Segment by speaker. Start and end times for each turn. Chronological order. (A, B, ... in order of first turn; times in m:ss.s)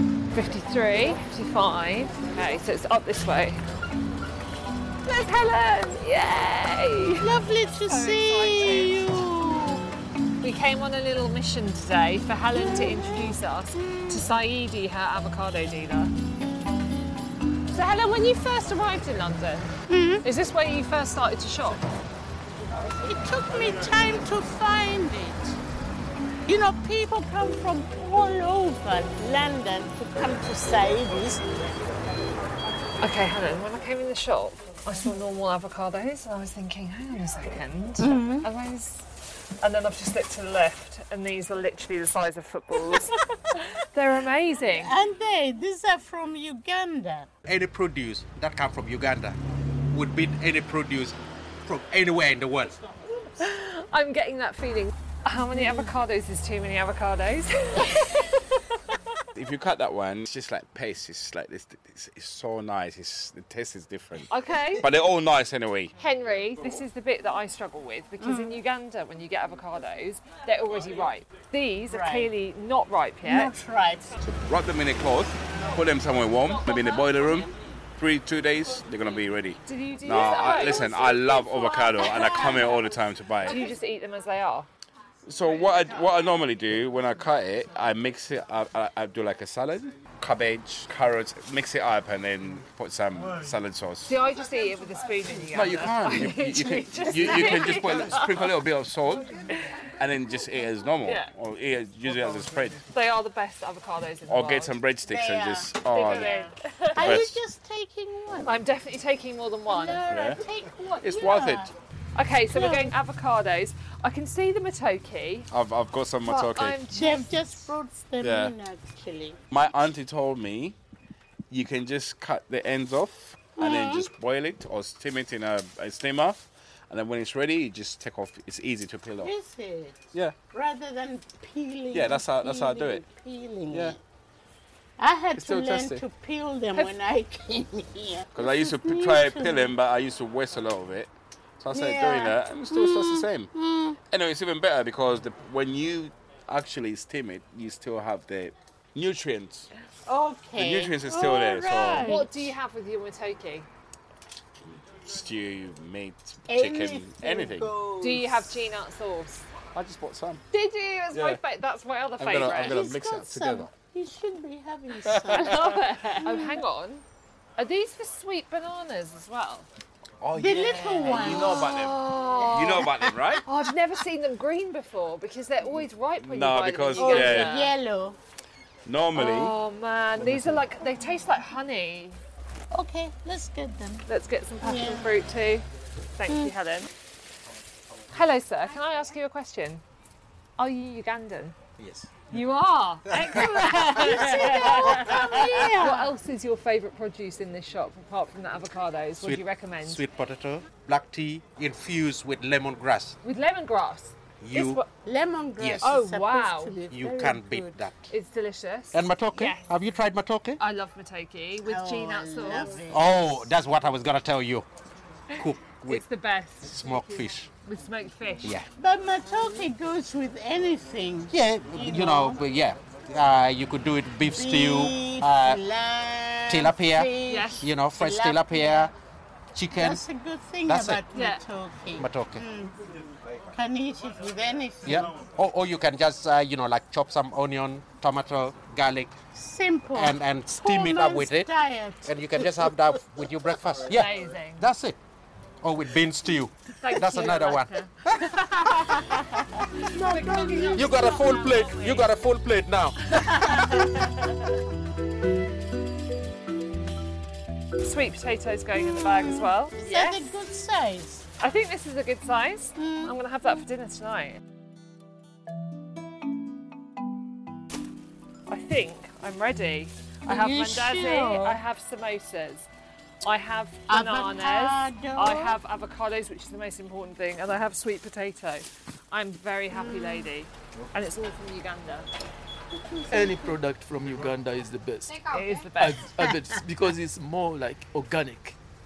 0:00.3-0:03.6 A
0:05.0-0:07.3 A
0:07.2-0:09.8 B
0:07.8-0:09.0 A
0:10.4-0:16.1 A
0:12.5-0:14.2 B
0:17.7-0:21.8 A
0:19.9-0:20.2 B
0:23.0-0:25.6 B
0:26.5-0:31.8 B
0:33.0-0:45.0 A
0:38.0-0:38.5 B
0:44.7-0:47.3 B
0:47.4-0:49.4 C
0:49.9-0:52.8 C
0:53.4-0:58.8 A
0:59.3-1:05.9 D
1:04.3-1:04.9 A
1:06.0-1:13.6 A
1:08.2-1:08.6 B
1:11.9-1:12.3 B
1:13.2-1:14.3 B
1:14.4-1:23.6 D
1:19.6-1:22.5 A
1:21.7-1:22.8 B
1:23.4-1:24.7 A
1:25.3-1:34.2 D
1:34.1-1:38.3 A
1:35.5-1:35.9 E
1:35.6-1:39.3 D
1:40.0-1:42.9 D
1:41.0-1:41.3 A
1:42.9-1:44.8 A
1:44.3-1:46.4 D
1:45.0-1:48.5 B
1:45.9-1:47.2 A
1:47.0-1:47.4 D
1:48.4-1:50.0 A
1:49.7-1:51.7 B
1:50.1-1:50.4 D
1:51.0-1:51.7 D
1:52.2-1:55.5 A
1:52.5-1:53.0 B
1:55.5-1:56.8 D
1:56.3-1:57.7 A
1:56.9-1:59.4 B
1:58.2-1:58.6 D
1:59.5-2:00.8 D
2:01.5-2:09.3 D
2:03.6-2:04.1 B
2:09.2-2:14.0 B
2:11.9-2:13.0 D
2:13.7-2:14.0 D
2:15.0-2:19.7 B
2:15.3-2:16.0 D
2:18.3-2:23.5 D
2:21.7-2:24.0 B
2:24.1-2:29.7 D
2:30.0-2:32.5 B
2:30.6-2:32.2 D
2:31.9-2:33.7 A
2:34.9-2:37.7 D
2:36.5-2:38.4 B
2:38.0-2:39.4 A
2:39.7-2:40.4 D
2:40.5-2:42.8 A
2:41.1-2:41.4 D
2:42.2-2:43.7 D
2:42.4-2:46.6 B
2:45.0-2:45.6 D
2:45.3-2:47.0 A
2:47.6-2:49.7 A
2:50.2-2:53.4 D
2:50.3-2:51.7 B
2:51.2-2:52.9 A
2:52.4-2:53.4 B
2:53.4-2:57.7 A
2:56.2-2:57.6 D
2:57.0-2:58.2 B
2:58.8-2:59.5 D
2:59.1-3:02.2 A
3:02.7-3:04.0 B
3:04.1-3:06.9 A
3:04.6-3:05.1 B
3:06.3-3:06.5 B
3:08.1-3:09.8 A
3:10.6-3:11.6 A
3:11.8-3:12.1 C
3:12.3-3:20.0 A
3:13.2-3:16.1 B
3:13.4-3:14.1 C
3:19.2-3:23.2 C
3:23.2-3:24.8 A
3:24.4-3:24.8 C
3:24.5-3:27.8 B
3:25.6-3:25.9 C
3:25.8-3:26.8 A
3:26.9-3:28.1 C
3:28.1-3:29.7 A
3:28.9-3:30.6 C
3:30.6-3:32.7 A
3:31.6-3:33.5 B
3:32.9-3:34.7 C
3:35.4-3:36.0 C
3:35.4-3:37.0 A
3:36.6-3:37.5 C
3:37.6-3:38.6 A
3:38.8-3:42.4 B
3:41.3-3:45.6 C
3:44.3-3:48.9 B
3:46.5-3:48.9 C
3:47.2-3:47.7 A
3:49.5-3:50.0 C
3:49.7-3:52.7 B
3:50.7-3:51.0 C
3:51.1-3:51.4 A
3:52.0-3:52.4 C
3:53.5-3:55.1 B
3:54.8-3:59.2 C
3:59.3-4:02.8 B
3:59.9-4:01.5 C
4:02.0-4:05.0 C
4:03.9-4:04.7 A
4:05.6-4:09.4 C
4:06.8-4:07.9 A
4:09.8-4:11.2 B
4:09.9-4:12.1 A
4:10.7-4:13.9 C
4:13.2-4:13.9 B
4:17.8-4:20.3 A
4:18.7-4:21.2 B
4:21.4-4:24.4 A
4:22.8-4:23.1 B
4:28.5-4:32.7 A
4:30.2-4:31.6 B
4:33.2-4:42.1 A
4:33.9-4:35.6 B
4:39.7-4:40.3 B
4:42.8-4:43.6 B
4:43.1-4:48.6 E
4:45.2-4:46.1 A